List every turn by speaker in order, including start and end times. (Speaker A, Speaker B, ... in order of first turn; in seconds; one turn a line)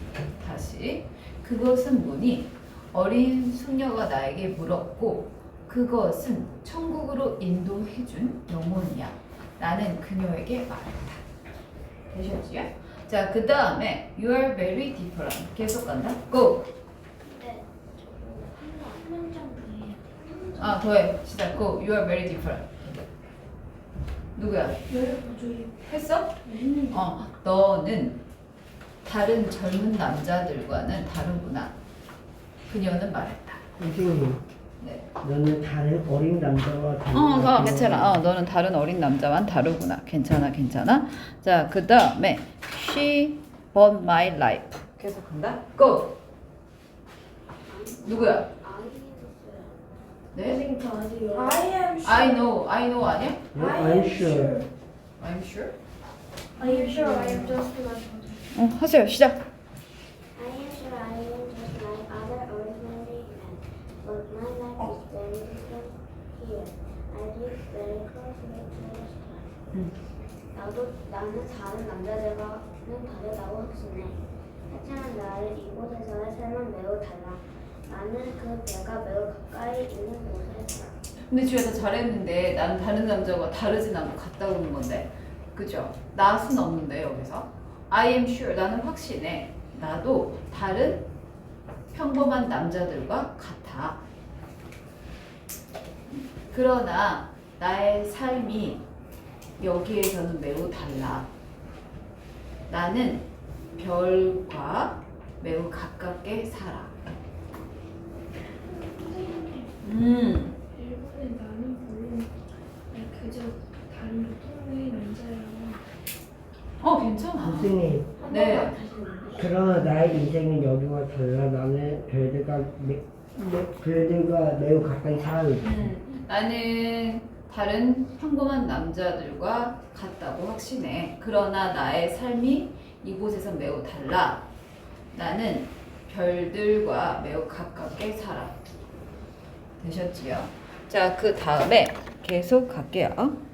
Speaker A: 0.4-11.2
Speaker A: 12.1-16.7
Speaker B: 17.2-20.8
Speaker A: 20.6-23.0
Speaker A: 24.4-24.8
Speaker C: 24.9-25.7
Speaker A: 25.9-26.4
Speaker C: 26.5-26.9
Speaker A: 26.9-28.2
Speaker A: 29.0-31.8
Speaker A: 32.7-33.6
Speaker D: 33.8-34.4
Speaker A: 34.8-35.1
Speaker D: 35.2-38.2
Speaker A: 37.1-46.1
Speaker B: 47.7-49.8
Speaker A: 48.0-48.5
Speaker A: 50.3-50.6
Speaker E: 50.5-51.6
Speaker C: 51.3-52.5
Speaker A: 52.0-53.5
Speaker D: 53.5-54.6
Speaker C: 53.5-54.7
Speaker A: 55.2-55.8
Speaker C: 56.6-58.3
Speaker E: 56.6-57.7
Speaker A: 58.5-59.4
Speaker B: 60.3-69.6
Speaker B: 70.5-81.0
Speaker A: 81.3-91.1
Speaker A: 91.9-94.0
Speaker A: 96.1-98.8
Speaker A: 99.6-101.3
Speaker A: 102.7-107.0
Speaker C: 108.6-109.7
Speaker A: 109.8-110.5
Speaker C: 110.7-112.3
Speaker C: 112.9-115.8
Speaker A: 116.8-118.8
Speaker D: 117.4-118.1
Speaker E: 118.2-119.5
Speaker D: 119.3-125.9
Speaker A: 125.6-134.5
Speaker A: 135.1-138.6
Speaker A: 139.8-143.4